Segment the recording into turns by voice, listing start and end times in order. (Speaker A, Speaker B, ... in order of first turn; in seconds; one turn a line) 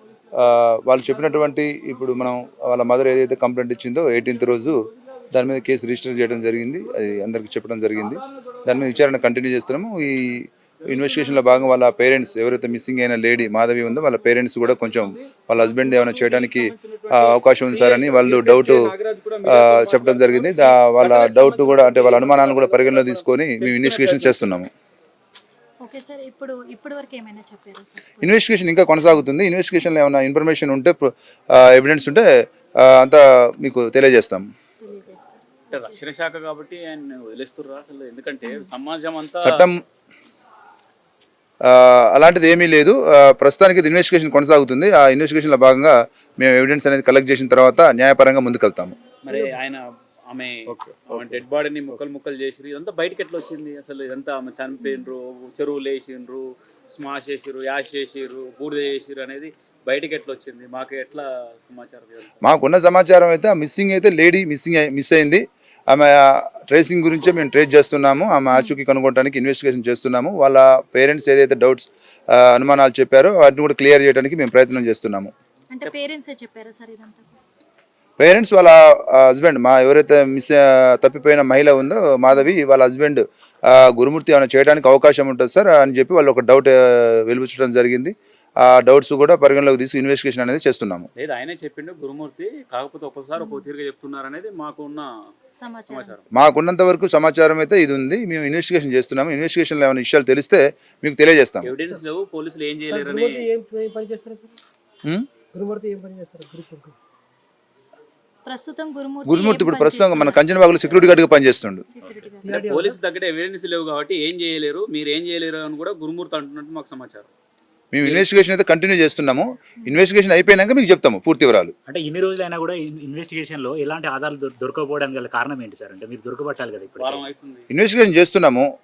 Speaker A: 0.3-4.8
Speaker A: 5.3-18.9
Speaker B: 15.8-24.4
Speaker A: 19.4-24.7
Speaker C: 25.9-28.2
Speaker A: 28.2-32.3
Speaker A: 32.8-34.5
Speaker C: 34.8-35.8
Speaker B: 35.7-39.6
Speaker A: 39.4-39.8
Speaker A: 41.6-49.0
Speaker B: 49.2-62.3
Speaker A: 62.4-75.3
Speaker C: 75.7-77.3
Speaker A: 78.2-91.1
Speaker B: 91.2-95.1
Speaker C: 95.6-96.2
Speaker B: 95.9-96.2
Speaker A: 96.3-101.7
Speaker B: 101.6-103.5
Speaker D: 102.9-104.5
Speaker D: 105.5-106.9
Speaker C: 108.5-110.9
Speaker A: 109.2-111.8
Speaker C: 112.0-112.5
Speaker B: 112.2-117.3
Speaker D: 112.4-113.0
Speaker A: 117.9-121.7
Speaker E: 121.9-127.3
Speaker B: 127.0-127.7
Speaker A: 127.7-128.7